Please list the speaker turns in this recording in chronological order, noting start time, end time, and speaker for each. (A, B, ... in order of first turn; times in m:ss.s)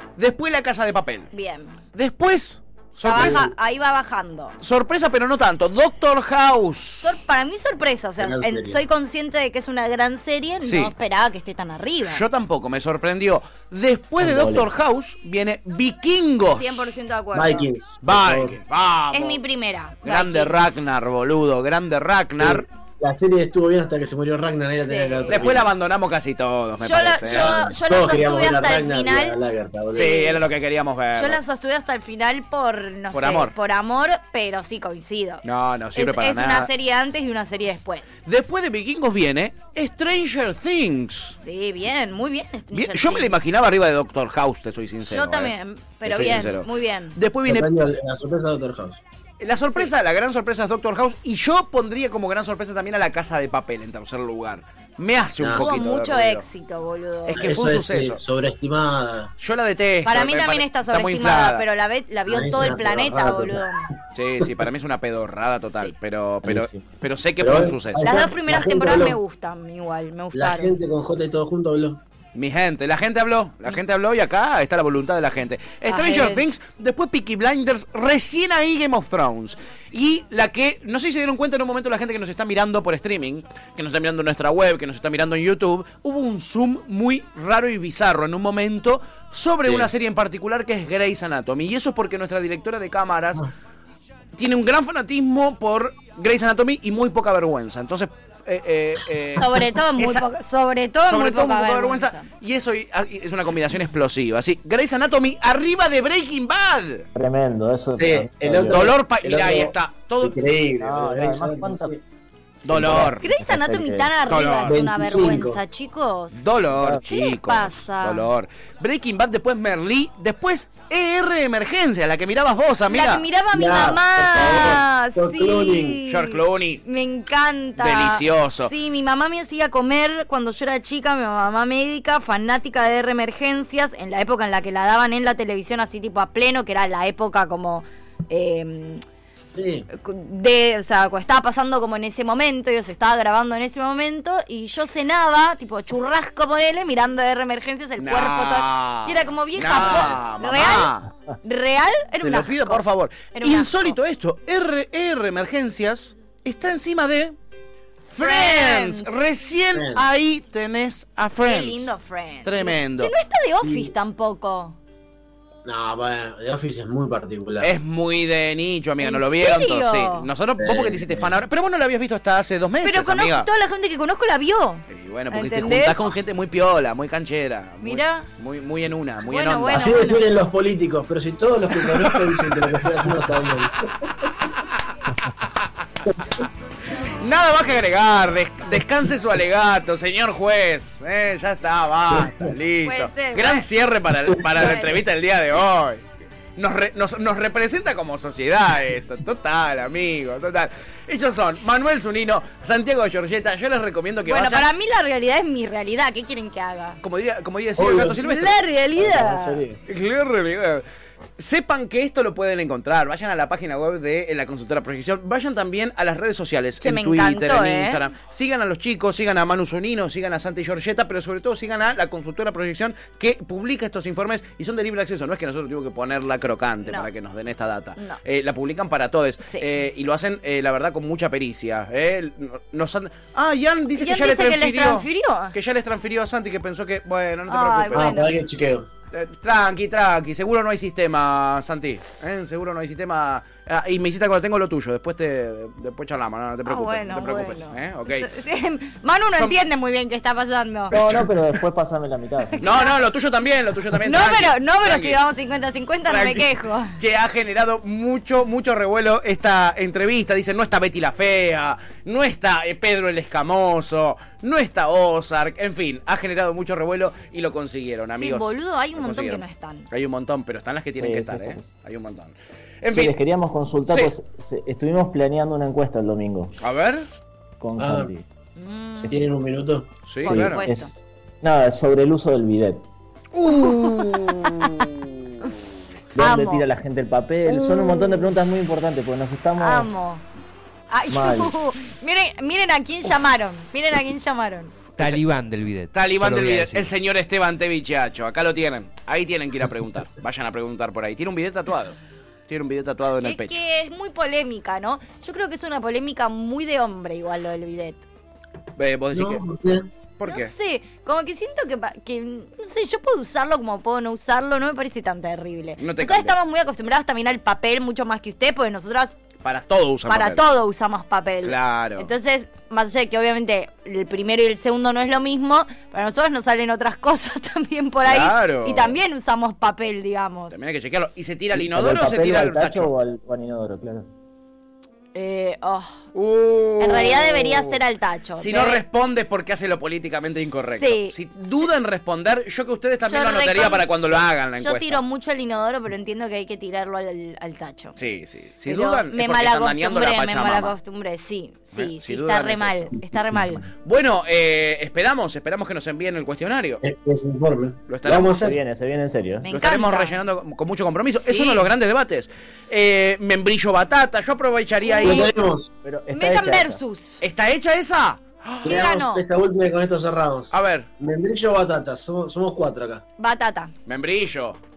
0:00.2-0:01.3 A
0:01.3-0:01.8 B
0:01.9-0:03.5 A
0:03.0-0:04.6 B
0:03.1-0:03.5 C
0:04.6-0:07.2 A
0:07.0-0:12.2 B
0:08.2-0:08.8 C
0:10.6-0:10.9 A
0:12.1-0:16.9 A
0:14.2-0:14.7 D
0:16.5-0:17.7 B
0:17.3-0:18.6 C
0:18.0-0:19.4 A
0:19.1-0:20.7 B
0:20.0-0:22.7 A
0:22.4-0:25.7 C
0:24.8-0:25.5 B
0:25.3-0:27.7 A
0:26.8-0:29.4 B
0:27.2-0:30.3 C
0:29.9-0:31.4 A
0:30.0-0:30.4 B
0:31.1-0:35.4 B
0:33.1-0:33.5 A
0:35.4-0:36.7 A
0:36.0-0:38.2 B
0:38.3-0:41.4 A
0:41.4-0:43.3 B
0:42.7-0:45.5 A
0:45.1-0:47.2 B
0:46.1-0:47.7 A
0:47.4-0:49.0 C
0:49.4-0:56.4 A
0:55.4-0:55.7 C
0:55.6-0:57.5 B
0:57.3-0:59.3 C
0:57.3-0:58.2 A
0:59.4-1:01.6 A
1:00.0-1:03.9 B
1:02.3-1:04.0 C
1:04.1-1:08.3 A
1:06.4-1:06.8 D
1:07.4-1:09.2 C
1:08.0-1:10.8 B
1:10.3-1:12.0 C
1:12.4-1:33.5 A
1:15.9-1:16.5 B
1:34.3-1:40.2 A
1:39.4-1:42.3 B
1:41.0-1:47.1 A
1:47.2-1:48.9 D
1:48.0-1:52.0 C
1:48.7-1:50.4 A
1:50.8-1:52.0 D
1:52.6-1:53.2 A
1:52.7-1:54.1 D
1:53.2-1:56.5 B
1:54.3-1:54.8 A
1:54.6-1:55.6 C
1:56.4-2:03.3 A
1:56.7-1:57.0 D
1:57.1-1:58.3 B
2:02.9-2:19.0 B
2:03.5-2:06.0 C
2:04.3-2:04.8 A
2:06.1-2:06.8 A
2:07.8-2:08.7 A
2:19.6-2:19.9 C
2:19.9-2:34.0 B
2:28.0-2:31.1 A
2:32.2-2:37.4 A
2:38.1-2:41.9 A
2:38.2-2:39.1 B
2:39.8-2:40.0 C
2:41.4-2:44.8 B
2:42.4-2:43.1 A
2:43.6-2:43.9 C
2:45.6-2:47.7 C
2:47.6-2:53.5 A
2:49.0-2:50.3 B
2:50.6-2:51.3 C
2:52.8-2:56.1 B
2:54.9-3:00.1 A
2:57.8-2:58.3 B
2:59.2-3:00.3 B
2:59.7-3:03.9 C
3:02.1-3:02.7 A
3:07.1-3:16.0 A
3:12.8-3:13.7 B
3:14.6-3:15.0 B
3:16.6-3:24.7 A
3:24.3-3:27.0 B
3:27.0-3:28.6 A
3:27.8-3:28.2 C
3:28.2-3:29.6 B
3:29.0-3:29.8 D
3:29.9-3:30.8 A
3:31.4-3:58.4 A
3:36.8-3:38.0 B
3:54.0-3:55.6 B
3:57.5-3:58.3 B
3:57.9-3:58.9 C
3:59.1-4:08.4 A
4:06.6-4:11.0 B
4:09.3-4:09.6 A
4:10.9-4:12.6 D
4:10.9-4:11.3 A
4:12.6-4:13.0 B
4:12.6-4:15.2 A
4:14.0-4:17.0 B
4:16.1-4:33.2 A
4:28.2-4:29.9 B
4:31.0-4:31.7 D
4:32.9-4:36.6 D
4:33.9-4:34.2 A
4:36.6-4:37.1 A
4:37.6-4:38.2 D
4:37.8-4:38.1 C
4:38.6-4:39.2 B
4:39.0-4:39.2 D
4:39.1-4:39.9 C
4:40.1-4:40.6 A
4:40.2-4:40.9 B
4:40.3-4:42.8 D
4:43.3-4:45.0 A
4:43.5-4:44.9 B
4:46.2-4:49.9 D
4:46.2-4:46.6 B
4:47.5-4:48.4 B
4:49.6-4:50.2 B
4:50.9-4:54.8 B
4:51.1-4:51.5 D
4:55.0-4:56.9 E
4:55.0-4:55.3 A
4:55.9-5:03.6 A
5:03.2-5:08.0 B
5:08.8-5:09.4 A
5:09.1-5:09.9 C
5:10.2-5:10.5 A
5:10.2-5:19.2 B
5:15.8-5:16.3 A
5:19.4-5:20.4 A
5:20.1-5:30.6 B
5:21.4-5:22.1 A
5:28.0-5:29.0 A
5:30.5-5:32.9 A
5:31.5-5:34.1 D
5:35.2-5:36.0 B
5:36.1-5:37.8 A
5:36.8-5:38.8 B
5:38.4-5:45.0 A
5:40.8-5:41.2 B
5:43.0-5:48.0 B
5:48.0-5:50.7 A
5:48.7-5:53.7 B
5:51.8-5:53.0 A
5:53.8-5:56.8 A
5:56.8-5:58.6 C
5:57.9-5:58.3 A
5:58.3-5:59.5 D
5:59.4-6:00.2 B
5:59.5-6:05.4 A
6:01.2-6:01.7 B
6:04.9-6:05.3 B
6:05.0-6:05.7 C
6:05.8-6:06.8 D
6:06.1-6:07.2 B
6:07.2-6:08.8 A
6:08.6-6:13.0 C
6:08.6-6:09.2 B
6:10.5-6:10.9 A
6:13.2-6:13.7 B
6:13.9-6:14.6 A